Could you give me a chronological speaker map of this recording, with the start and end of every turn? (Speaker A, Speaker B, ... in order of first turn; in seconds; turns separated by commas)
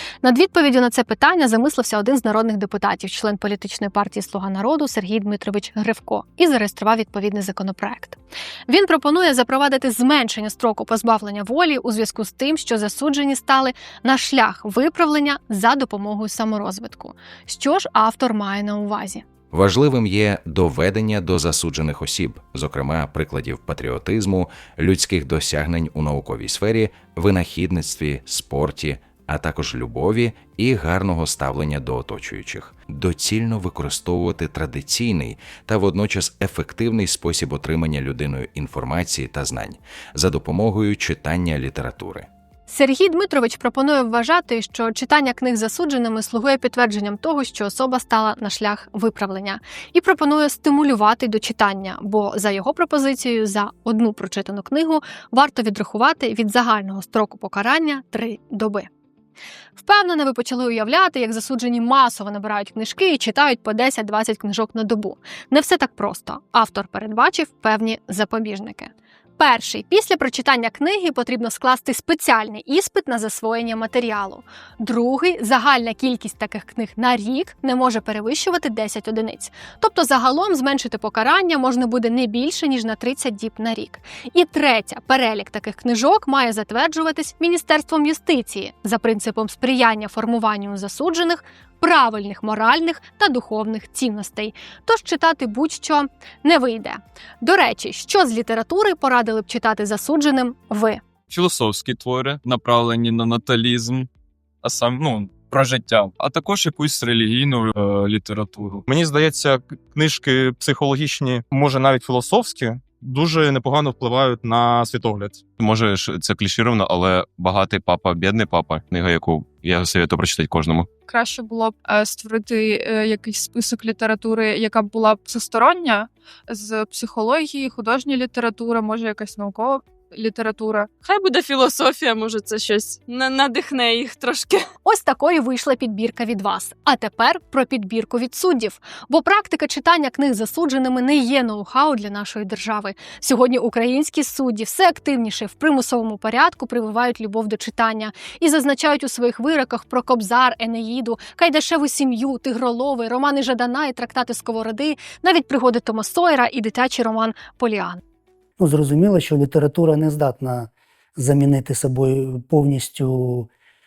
Speaker A: 0.2-19.2, Speaker B: 19.5-42.3, Speaker A: 42.7-58.9, Speaker A: 59.8-101.0, Speaker C: 101.3-104.1, Speaker C: 104.6-108.8, Speaker D: 108.9-115.4, Speaker E: 115.6-120.9, Speaker F: 121.1-130.9, Speaker G: 131.0-134.7, Speaker A: 134.8-158.0, Speaker H: 158.6-163.5